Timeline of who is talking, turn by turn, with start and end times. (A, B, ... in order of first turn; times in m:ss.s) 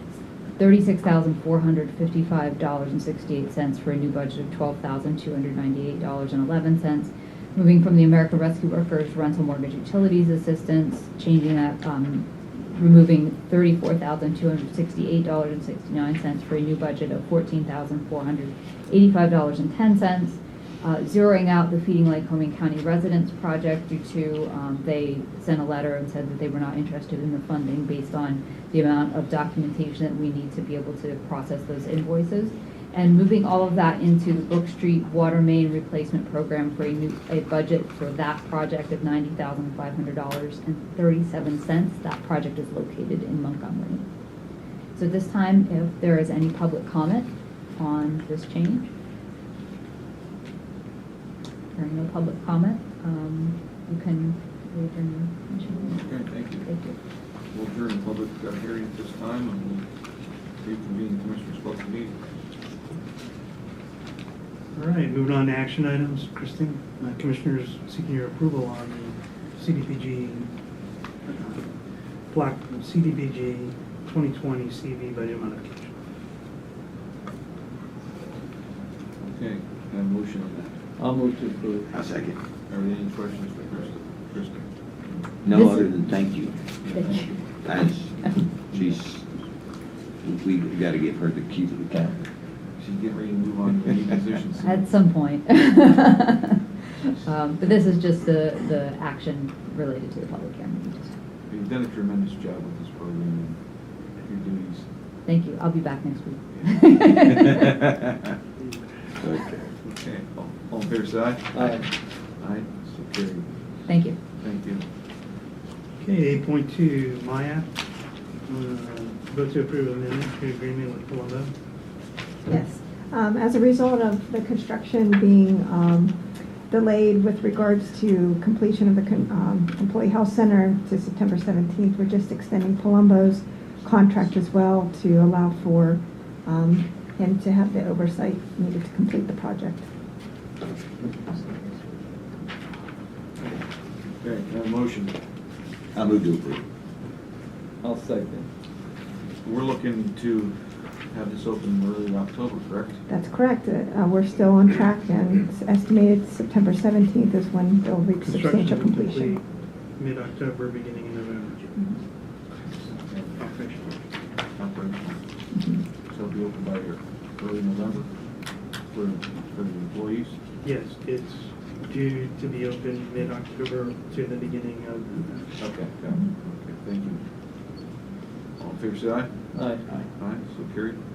0:00.6-0:44.0 A
0:44.9-0:48.9 A
0:51.7-0:57.0 A
0:56.0-0:56.7 B
0:57.5-0:59.8 B
1:00.6-1:02.2 B
1:04.7-1:10.5 C
1:11.3-1:11.7 C
1:12.3-1:15.9 C
1:19.2-1:20.8 B
1:21.0-1:22.0 D
1:21.9-1:22.4 E
1:22.6-1:24.7 B
1:25.4-1:26.6 E
1:25.5-1:26.4 A
1:26.8-1:27.6 B
1:26.9-1:28.3 A
1:27.6-1:29.2 E
1:28.3-1:29.0 B
1:30.2-1:32.2 E
1:32.8-1:34.9 B
1:34.6-1:41.1 A
1:41.5-1:43.6 B
1:44.1-1:44.8 B
1:45.2-1:47.7 A
1:46.6-1:47.0 B
1:49.7-1:53.5 B
1:51.5-1:51.9 D
1:53.8-1:54.2 A
1:54.4-1:54.8 B
1:56.0-1:57.7 C
1:58.5-2:01.5 C
2:02.5-2:06.2 F
2:06.7-2:19.9 F
2:24.2-2:25.1 B
2:25.9-2:26.6 E
2:27.8-2:28.5 D
2:29.4-2:33.0 B
2:33.1-2:39.4 F
2:38.2-2:39.4 C
2:40.0-2:41.7 C
2:43.0-2:43.4 B
2:43.3-2:44.0 C
2:44.5-2:45.2 B
2:46.0-2:48.1 B
2:48.9-2:50.4 B
2:50.6-2:55.6 C
2:55.6-2:57.2 B
2:58.6-2:59.5 B
2:59.5-2:59.9 D
3:00.0-3:01.0 B